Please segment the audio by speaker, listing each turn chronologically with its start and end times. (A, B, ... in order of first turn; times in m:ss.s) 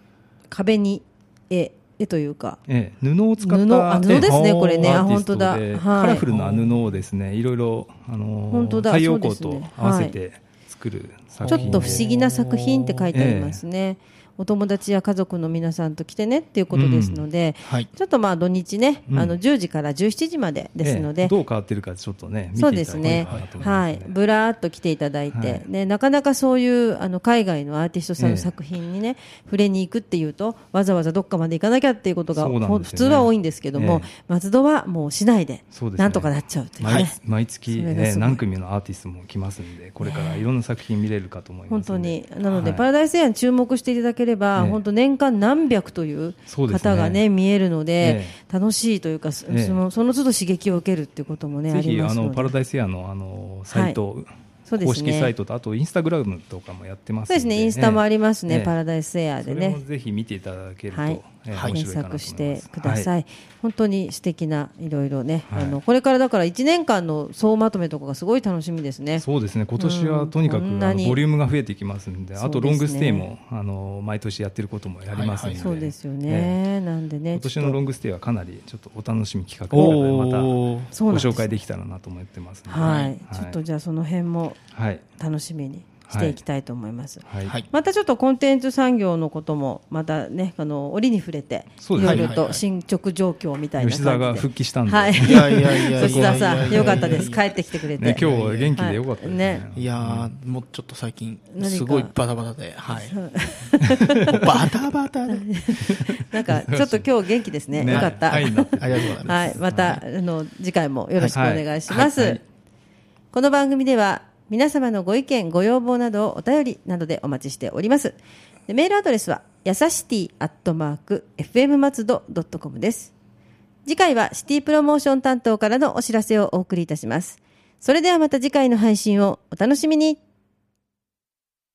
0:00.5-0:02.6 A
0:02.7-0:12.1 B
0:03.4-0:06.2 A
0:04.1-0:04.9 C
0:06.3-0:06.8 C
0:08.5-0:10.2 A
0:11.4-0:13.1 C
0:11.5-0:21.3 A
0:13.1-0:13.6 B
0:16.7-0:17.2 B
0:19.1-0:19.3 B
0:20.8-0:24.1 B
0:22.5-0:38.4 A
0:23.0-0:23.5 C
0:25.3-0:25.6 B
0:28.2-0:28.5 B
0:32.3-0:34.1 B
0:35.7-0:42.8 B
0:40.0-0:40.4 A
0:41.7-0:52.5 A
0:44.6-0:44.8 B
0:46.5-0:47.2 B
0:48.0-0:48.4 B
0:49.5-0:49.8 B
0:51.7-0:58.8 B
0:53.7-0:54.0 A
0:54.7-0:55.3 A
0:57.3-0:59.8 A
0:59.4-1:03.1 B
1:00.9-1:09.2 A
1:01.5-1:01.8 C
1:05.5-1:05.8 B
1:09.2-1:16.6 B
1:09.8-1:11.2 A
1:12.4-1:13.3 A
1:15.1-1:15.6 C
1:15.6-1:17.8 A
1:17.3-1:23.6 B
1:19.7-1:20.9 C
1:20.9-1:21.6 A
1:22.7-1:24.6 A
1:22.8-1:23.1 C
1:24.7-1:25.0 B
1:25.2-1:39.6 A
1:26.1-1:26.4 B
1:27.2-1:27.5 B
1:31.8-1:32.4 B
1:32.0-1:32.6 C
1:33.8-1:37.4 B
1:35.2-1:38.8 C
1:37.9-1:40.3 B
1:39.7-1:43.2 C
1:41.5-1:42.1 A
1:42.9-1:44.4 A
1:43.8-1:44.6 B
1:44.3-1:45.4 C
1:45.3-1:52.4 A
1:45.8-1:47.1 B
1:47.7-1:50.0 B
1:47.9-1:49.6 C
1:51.3-1:52.4 B
1:51.9-1:52.1 C
1:53.3-1:58.2 A
1:58.7-2:03.1 A
2:03.8-2:10.2 A